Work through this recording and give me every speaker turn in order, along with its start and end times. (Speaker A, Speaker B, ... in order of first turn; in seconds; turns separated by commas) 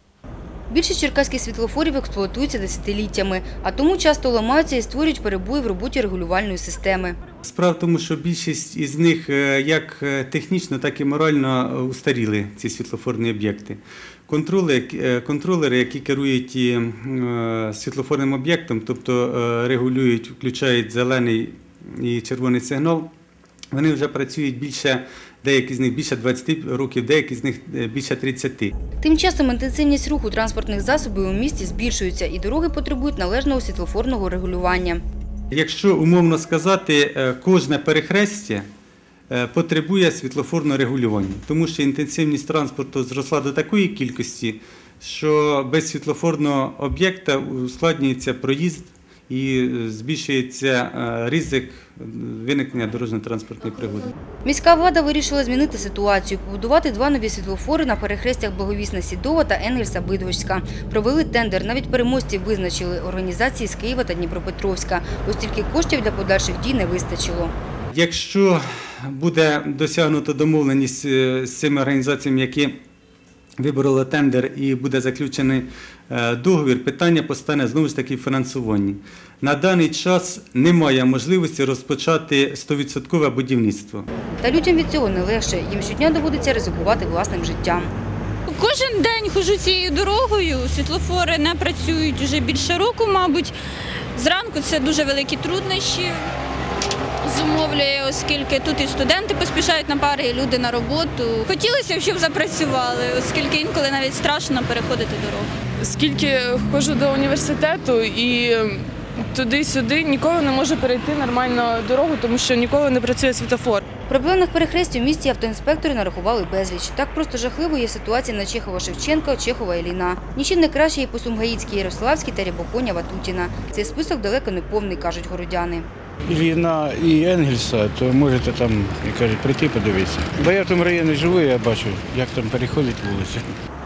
Speaker A: 0.7-7.2, Speaker B: 7.5-23.1, Speaker B: 23.7-28.7, Speaker A: 29.0-35.0, Speaker B: 35.5-38.7, Speaker B: 39.3-54.1, Speaker A: 54.5-67.5, Speaker B: 67.9-72.8, Speaker B: 73.6-84.1, Speaker A: 84.4-87.9, Speaker C: 88.5-93.5, Speaker C: 94.2-96.2, Speaker C: 97.2-105.5, Speaker D: 105.8-113.9, Speaker A: 114.1-125.9, Speaker E: 126.3-133.5